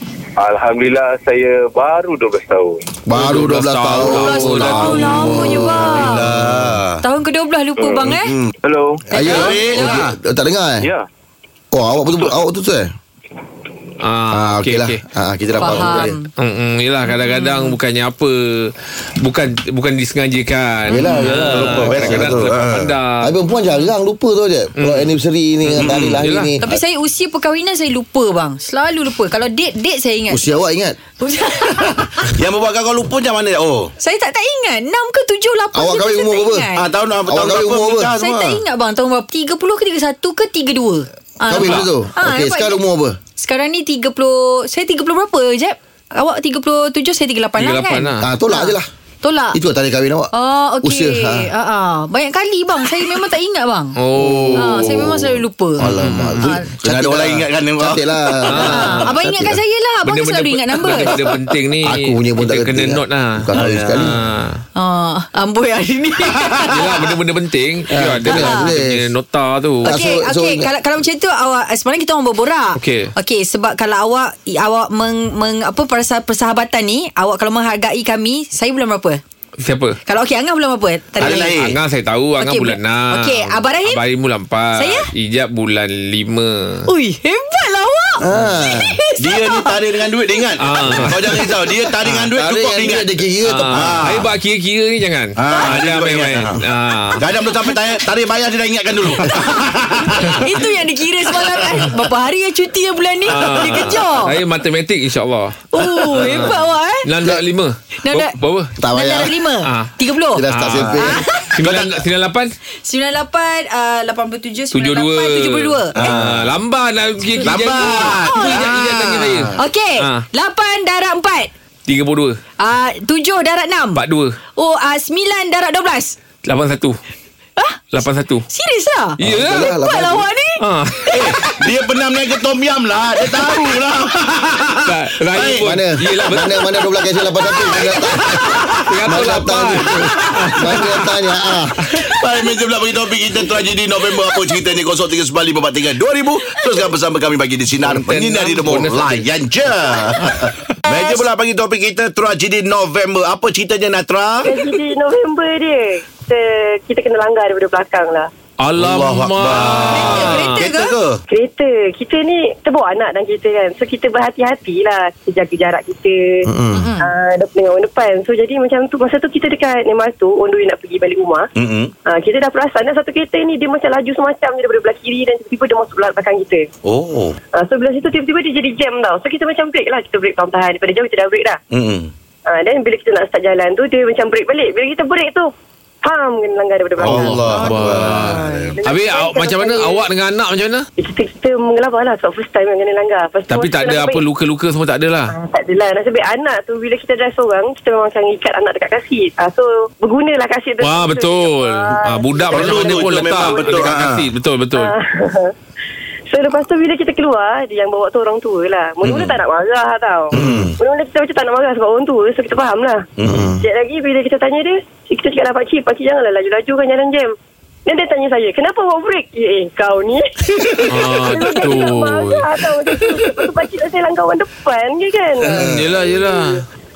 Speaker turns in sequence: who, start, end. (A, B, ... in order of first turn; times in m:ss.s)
0:00.4-0:02.7 A
0:03.0-0:06.8 B
0:03.1-0:05.4 C
0:04.0-0:06.2 D
0:04.6-0:07.0 E
0:07.0-0:08.3 D
0:09.1-0:10.0 D
0:09.1-0:10.9 B
0:09.2-0:10.2 E
0:11.7-0:12.9 B
0:14.0-0:15.0 C
0:14.3-0:16.1 B
0:15.6-0:23.3 C
0:15.6-0:16.3 D
0:17.2-0:17.8 D
0:20.9-0:22.6 B
0:21.1-0:22.9 E
0:23.2-0:26.8 B
0:24.8-0:25.1 C
0:25.6-0:26.5 C
0:25.8-0:26.2 E
0:26.6-0:30.5 D
0:30.3-0:31.0 B
0:31.2-0:32.2 D
0:32.2-0:33.9 E
0:34.0-0:36.8 D
0:35.7-0:36.7 B
0:36.8-0:38.6 E
0:37.2-0:38.1 B
0:38.2-0:42.8 D
0:41.5-0:43.2 B
0:41.5-0:41.9 C
0:43.4-0:49.6 D
0:47.6-0:48.2 C
0:48.2-0:48.8 B
0:49.5-0:50.3 B
0:50.3-0:54.0 D
0:50.8-0:51.5 B
0:54.0-0:55.3 C
0:54.2-0:55.0 B
0:54.5-0:56.7 D
0:55.8-0:59.6 B
0:55.9-0:56.4 C
0:56.5-0:58.1 E
0:58.5-0:59.1 C
0:58.6-1:01.3 D
1:00.0-1:04.6 C
1:01.0-1:04.2 B
1:03.5-1:04.2 E
1:04.8-1:06.8 D
1:06.6-1:09.9 C
1:07.9-1:09.1 B
1:08.3-1:08.7 D
1:09.8-1:10.7 B
1:09.8-1:19.2 D
1:12.8-1:13.1 C
1:19.6-1:20.0 C
1:20.0-1:21.6 D
1:21.2-1:21.8 E
1:21.2-1:26.8 C
1:22.4-1:24.0 D
1:24.8-1:25.1 D
1:26.8-1:29.7 D
1:28.2-1:29.0 B
1:29.2-1:33.1 E
1:30.6-1:31.3 C
1:32.0-1:34.2 B
1:33.4-1:37.2 C
1:33.7-1:34.3 E
1:35.4-1:36.6 E
1:37.2-1:40.6 E
1:40.3-1:44.4 D
1:43.2-1:48.7 C
1:45.7-1:47.0 D
1:48.0-1:48.3 D
1:48.8-1:49.3 B
1:48.9-1:50.4 D
1:49.6-1:49.9 C
1:50.3-1:51.2 B
1:50.5-1:51.0 C
1:50.9-1:52.0 E
1:51.0-1:51.5 D
1:51.5-1:52.5 C
1:52.8-1:56.0 D
1:54.7-2:00.2 C
1:55.9-1:56.4 E
1:57.4-1:58.7 D
1:57.4-1:59.5 E
1:59.5-2:01.5 D
2:01.9-2:02.4 C
2:02.6-2:04.0 D
2:03.9-2:04.4 C
2:04.6-2:06.2 D
2:06.4-2:07.0 C
2:07.6-2:07.8 D
2:07.9-2:08.4 C
2:08.5-2:11.5 D
2:09.2-2:09.7 C
2:09.2-2:10.3 B
2:10.6-2:11.2 C
2:11.1-2:15.7 E
2:13.2-2:13.6 D
2:14.8-2:16.9 C
2:15.6-2:21.8 B
2:17.6-2:18.0 E
2:18.2-2:21.1 C
2:21.9-2:34.6 E
2:27.8-2:29.3 C
2:30.9-2:31.2 D
2:34.4-2:38.3 F
2:38.6-2:40.7 C
2:38.8-2:41.2 E
2:39.5-2:40.9 D
2:41.3-2:46.4 F
2:46.4-2:46.9 B
2:46.7-2:47.1 D
2:47.0-2:51.4 F
2:51.6-2:51.9 E
2:52.1-2:56.6 F
2:56.8-2:57.4 E
2:57.6-3:01.6 F
3:01.7-3:02.1 E
3:02.5-3:05.4 F
3:06.0-3:10.1 F
3:07.0-3:08.8 E
3:07.0-3:10.9 C
3:11.0-3:14.2 F
3:13.5-3:15.4 C
3:15.4-3:23.7 F
3:20.8-3:24.9 C
3:22.5-3:24.2 E
3:24.8-3:25.5 F
3:26.3-3:33.0 F
3:29.0-3:29.4 E
3:30.3-3:30.8 E
3:30.3-3:30.7 B
3:33.2-3:33.6 E
3:33.2-3:33.6 B
3:33.6-3:37.3 F
3:37.8-3:40.5 F
3:40.9-3:43.4 C
3:41.0-3:46.6 F
3:45.4-3:46.6 C
3:45.5-3:46.0 E